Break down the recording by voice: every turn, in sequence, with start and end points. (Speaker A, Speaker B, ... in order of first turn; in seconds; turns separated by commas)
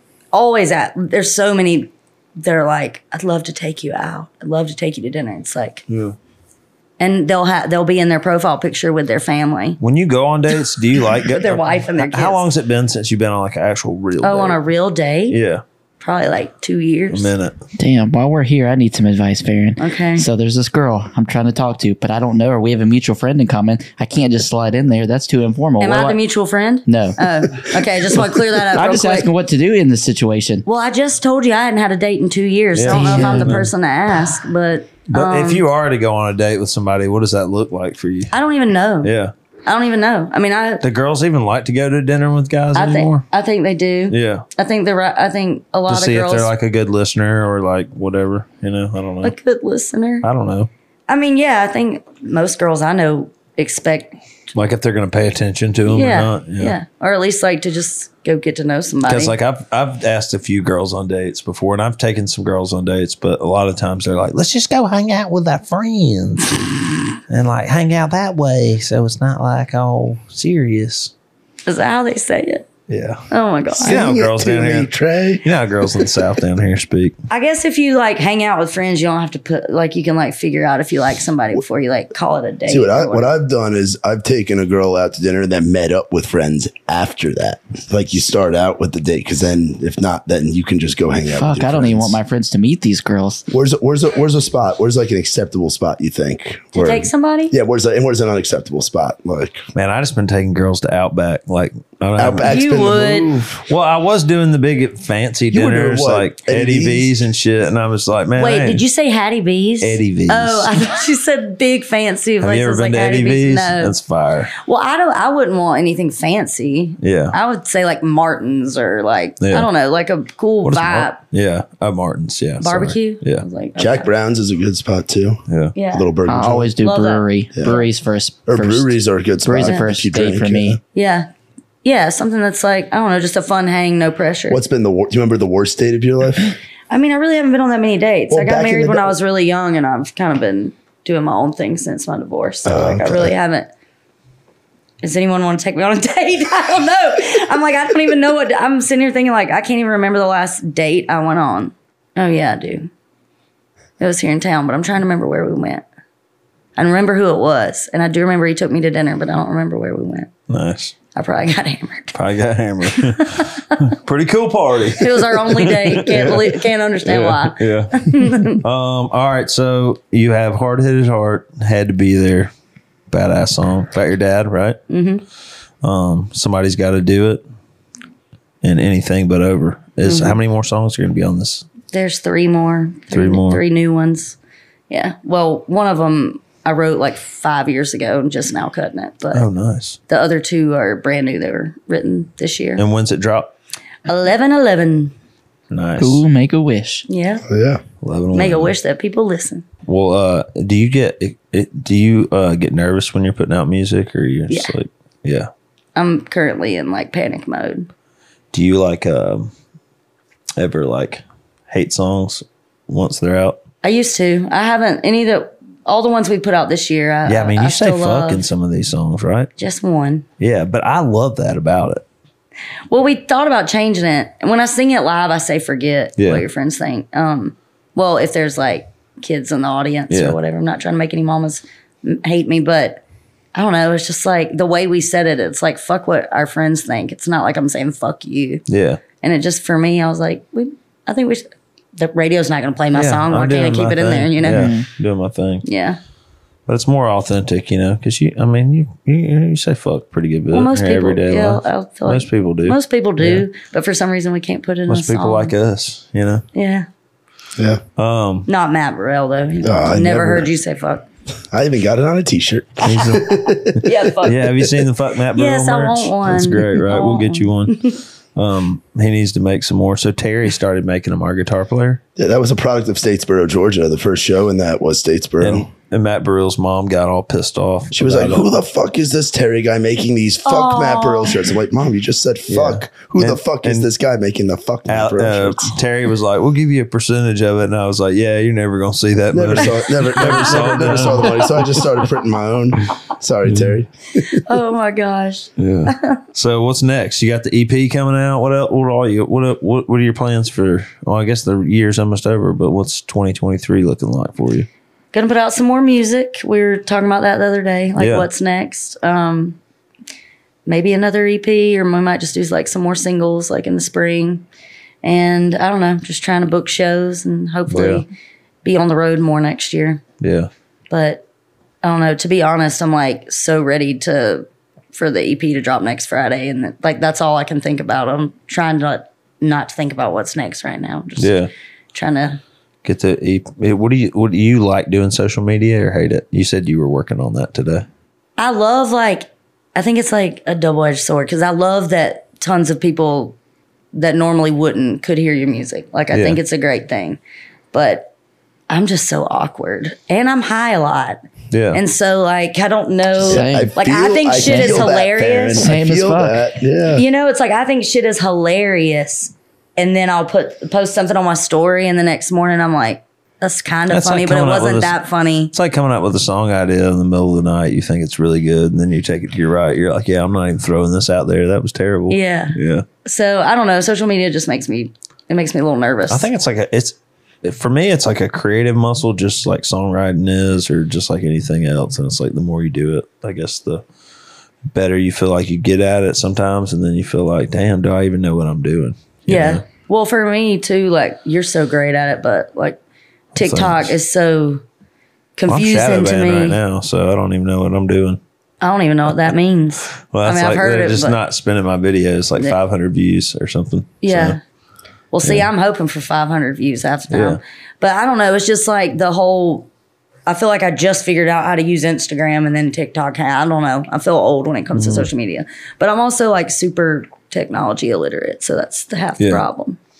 Speaker A: 0.3-5.8, Speaker B: 5.9-6.1, Speaker A: 7.0-9.8, Speaker B: 9.8-14.6, Speaker A: 11.3-12.4, Speaker A: 14.2-15.4, Speaker B: 15.3-15.6, Speaker A: 16.0-17.3, Speaker B: 17.1-17.5, Speaker C: 17.8-26.2, Speaker A: 19.8-20.2, Speaker A: 25.8-29.3, Speaker C: 26.9-27.7, Speaker C: 28.6-30.6, Speaker A: 30.6-35.6, Speaker B: 32.7-33.7, Speaker C: 32.9-33.6, Speaker B: 35.1-38.3, Speaker A: 38.3-39.1, Speaker B: 39.0-39.3, Speaker A: 39.6-40.8, Speaker B: 40.8-43.2, Speaker A: 42.7-46.5, Speaker B: 44.1-44.4, Speaker B: 45.9-49.3, Speaker A: 49.2-50.2, Speaker B: 50.2-50.7, Speaker A: 51.1-54.5, Speaker B: 54.5-56.8, Speaker A: 55.9-59.4, Speaker B: 59.0-66.6, Speaker B: 67.3-71.1, Speaker A: 71.7-72.7, Speaker B: 72.9-73.2, Speaker A: 73.3-74.1, Speaker D: 73.8-75.4, Speaker B: 73.8-74.9, Speaker B: 75.4-77.1, Speaker A: 77.3-83.3, Speaker D: 82.7-92.2, Speaker C: 91.3-93.4, Speaker D: 93.5-99.6, Speaker A: 96.7-97.5, Speaker B: 99.7-102.6, Speaker D: 102.2-103.6, Speaker A: 102.4-103.3, Speaker B: 103.7-108.8, Speaker D: 105.5-107.1, Speaker A: 108.3-113.9, Speaker B: 109.8-110.7, Speaker B: 112.4-114.5, Speaker A: 114.5-121.2, Speaker B: 117.0-117.3, Speaker B: 119.4-119.7, Speaker B: 120.6-123.4, Speaker A: 122.6-124.1, Speaker D: 123.8-125.4, Speaker B: 125.5-125.7, Speaker A: 125.7-126.1, Speaker D: 125.9-126.7, Speaker C: 126.3-128.9, Speaker A: 126.8-127.8, Speaker D: 127.5-127.8, Speaker D: 128.5-130.8, Speaker C: 129.4-130.8, Speaker A: 130.9-131.3, Speaker A: 131.8-134.6, Speaker D: 134.5-136.6, Speaker A: 136.9-143.7, Speaker D: 138.3-139.1, Speaker D: 142.6-143.3, Speaker A: 145.0-152.9, Speaker A: 154.0-155.8, Speaker A: 156.8-160.3, Speaker B: 160.5-160.9, Speaker A: 161.1-162.2, Speaker B: 162.1-172.5, Speaker A: 162.9-163.6, Speaker A: 165.0-168.6, Speaker B: 173.1-174.8, Speaker A: 174.9-175.2, Speaker B: 175.8-177.4, Speaker B: 178.6-181.7, Speaker A: 180.0-180.4, Speaker A: 181.9-184.4, Speaker B: 183.1-183.6, Speaker A: 184.9-189.4, Speaker B: 189.3-190.0, Speaker A: 190.1-192.8, Speaker B: 192.8-193.5, Speaker A: 194.1-195.1, Speaker B: 195.7-196.2, Speaker C: 196.0-197.1, Speaker A: 197.1-197.4, Speaker D: 197.5-197.8, Speaker B: 198.0-198.7, Speaker A: 198.3-199.7, Speaker B: 199.9-205.5, Speaker A: 205.9-207.9, Speaker B: 208.5-209.5, Speaker B: 210.6-213.6, Speaker A: 213.8-218.4, Speaker B: 217.2-219.5, Speaker A: 219.6-220.2, Speaker B: 220.4-222.0, Speaker A: 222.9-233.0, Speaker B: 226.2-226.4, Speaker B: 230.1-230.4, Speaker A: 233.5-238.6, Speaker B: 238.7-239.0, Speaker A: 239.2-241.4, Speaker A: 242.0-244.8, Speaker B: 242.9-245.7, Speaker C: 244.4-244.9, Speaker A: 245.6-246.0, Speaker B: 246.7-253.4, Speaker A: 250.5-255.5, Speaker B: 254.9-256.4, Speaker A: 256.5-256.9, Speaker B: 258.0-258.5, Speaker A: 258.5-261.0, Speaker D: 259.6-260.6, Speaker D: 261.5-264.3, Speaker B: 262.8-272.0, Speaker A: 263.8-264.4, Speaker A: 265.4-267.9, Speaker D: 272.1-275.6, Speaker B: 275.4-278.5, Speaker D: 277.9-285.7, Speaker A: 280.4-281.4, Speaker B: 282.5-283.9, Speaker B: 284.9-291.4, Speaker D: 289.3-294.4, Speaker A: 294.3-296.2, Speaker B: 295.6-304.7, Speaker A: 305.1-309.6, Speaker B: 308.0-308.3, Speaker A: 310.6-314.4, Speaker A: 315.0-318.1, Speaker B: 317.7-318.0, Speaker A: 318.6-320.0, Speaker B: 320.2-320.5, Speaker A: 320.9-321.2, Speaker A: 321.8-331.4, Speaker B: 331.2-331.5, Speaker A: 331.9-332.4, Speaker B: 332.8-337.9, Speaker A: 338.4-343.4, Speaker A: 343.9-347.2, Speaker B: 346.1-346.4, Speaker A: 347.7-348.1, Speaker A: 348.7-355.7, Speaker B: 351.5-351.8, Speaker C: 353.2-353.7, Speaker D: 353.2-357.0, Speaker C: 354.4-354.9, Speaker C: 355.6-356.4, Speaker A: 356.9-365.5, Speaker B: 363.9-364.9, Speaker B: 365.5-372.8, Speaker A: 372.1-376.3, Speaker B: 376.1-383.8, Speaker B: 384.7-389.6, Speaker A: 389.3-392.8, Speaker B: 393.4-393.9, Speaker A: 393.4-394.6, Speaker A: 395.4-396.6, Speaker B: 395.5-398.2, Speaker A: 398.6-401.2, Speaker B: 400.0-404.4, Speaker A: 404.0-404.4, Speaker A: 405.1-409.7, Speaker B: 407.1-407.4, Speaker A: 410.2-419.8, Speaker B: 414.7-415.1, Speaker B: 419.2-419.4